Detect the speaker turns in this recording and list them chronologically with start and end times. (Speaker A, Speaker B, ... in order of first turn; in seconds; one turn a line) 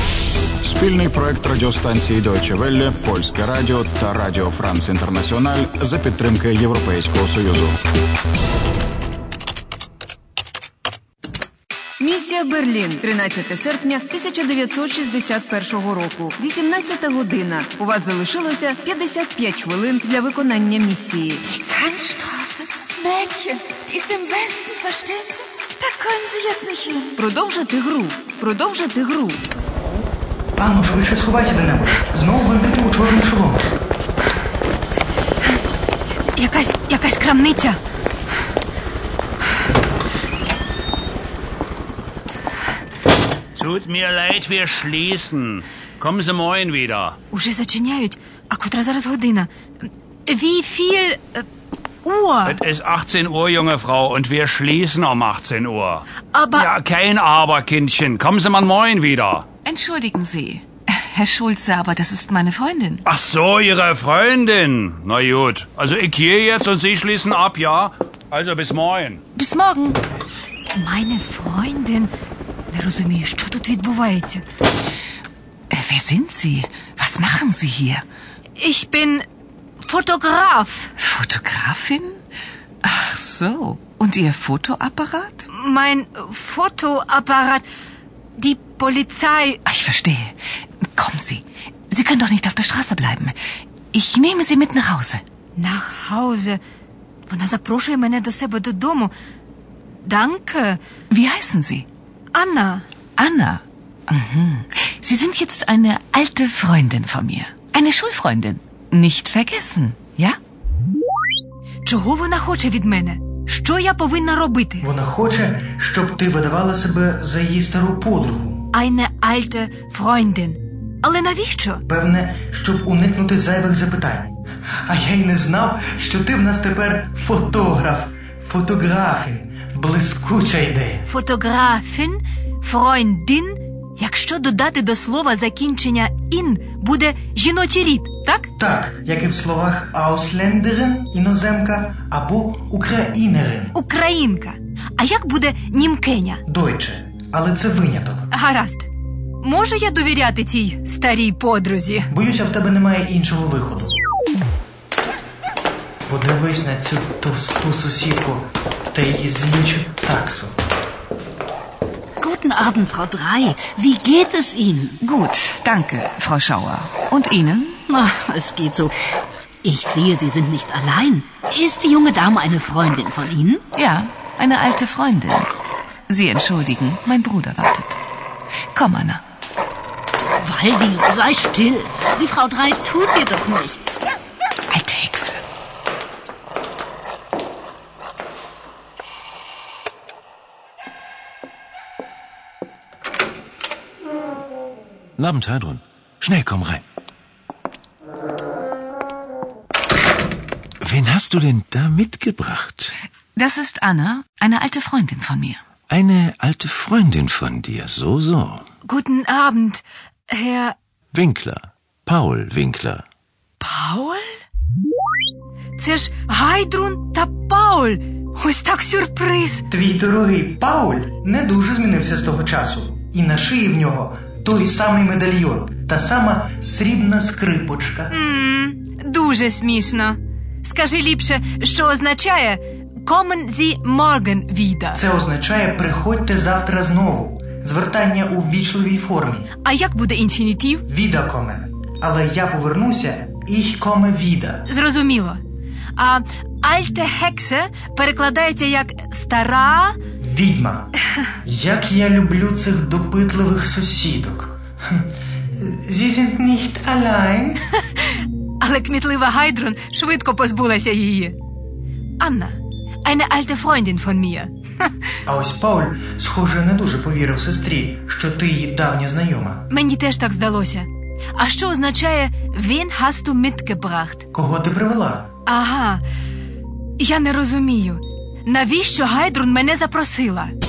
Speaker A: 0.6-7.7
Speaker B: 12.0-21.4
Speaker C: 21.5-27.2
Speaker B: 27.2-29.4
Speaker D: 30.6-33.7
Speaker C: 36.4-37.8
Speaker E: 43.6-47.2
Speaker C: 47.3-49.5
Speaker C: 50.2-51.5
Speaker C: 52.0-52.6
Speaker E: 52.4-56.0
Speaker C: 56.3-56.7
Speaker E: 56.5-59.5
Speaker F: 59.6-63.0
Speaker E: 63.0-69.2
Speaker F: 69.3-70.0
Speaker C: 70.7-72.1
Speaker C: 72.7-74.4
Speaker F: 75.7-78.0
Speaker C: 78.6-79.2
Speaker C: 79.8-80.9
Speaker F: 81.0-82.2
Speaker F: 82.8-85.5
Speaker C: 85.5-87.6
Speaker C: 88.4-89.6
Speaker F: 89.7-90.3
Speaker F: 90.9-93.3
Speaker F: 93.9-95.2
Speaker C: 95.5-96.6
Speaker C: 97.3-99.1
Speaker C: 100.0-100.8
Speaker F: 101.1-101.8
Speaker C: 102.3-102.8
Speaker F: 103.2-110.4
Speaker C: 111.8-114.9
Speaker D: 114.8-118.6
Speaker C: 118.7-121.8
Speaker D: 121.9-131.1
Speaker C: 131.1-138.5
Speaker D: 138.6-143.7
Speaker C: 143.7-146.4
Speaker D: 146.4-148.3
Speaker C: 148.3-148.9
Speaker C: 149.4-152.1
Speaker D: 152.1-153.9
Speaker D: 156.1-160.6
Speaker G: 162.2-164.9
Speaker F: 165.0-167.8
Speaker G: 167.9-168.9
Speaker G: 169.6-173.6
Speaker F: 173.7-175.5
Speaker F: 176.1-178.0
Speaker F: 178.7-179.2
Speaker G: 180.4-184.0
Speaker F: 184.7-185.4
Speaker H: 195.2-196.8
Speaker H: 200.8-202.9
Speaker F: 203.3-205.6
Speaker H: 205.9-208.6
Speaker C: 208.8-210.7
Speaker H: 211.1-213.0
Speaker C: 213.6-214.3
Speaker C: 215.8-219.6
Speaker D: 219.7-228.1
Speaker C: 228.1-235.0
Speaker D: 234.9-239.5
Speaker C: 239.6-240.8
Speaker D: 240.9-244.6
Speaker C: 244.7-245.4
Speaker C: 245.9-250.0
Speaker D: 250.2-250.9
Speaker D: 251.4-257.6
Speaker C: 258.6-261.4
Speaker C: 262.2-264.9
Speaker D: 265.2-269.6
Speaker C: 269.7-274.2
Speaker D: 274.3-275.3
Speaker C: 275.4-276.0
Speaker C: 277.0-280.5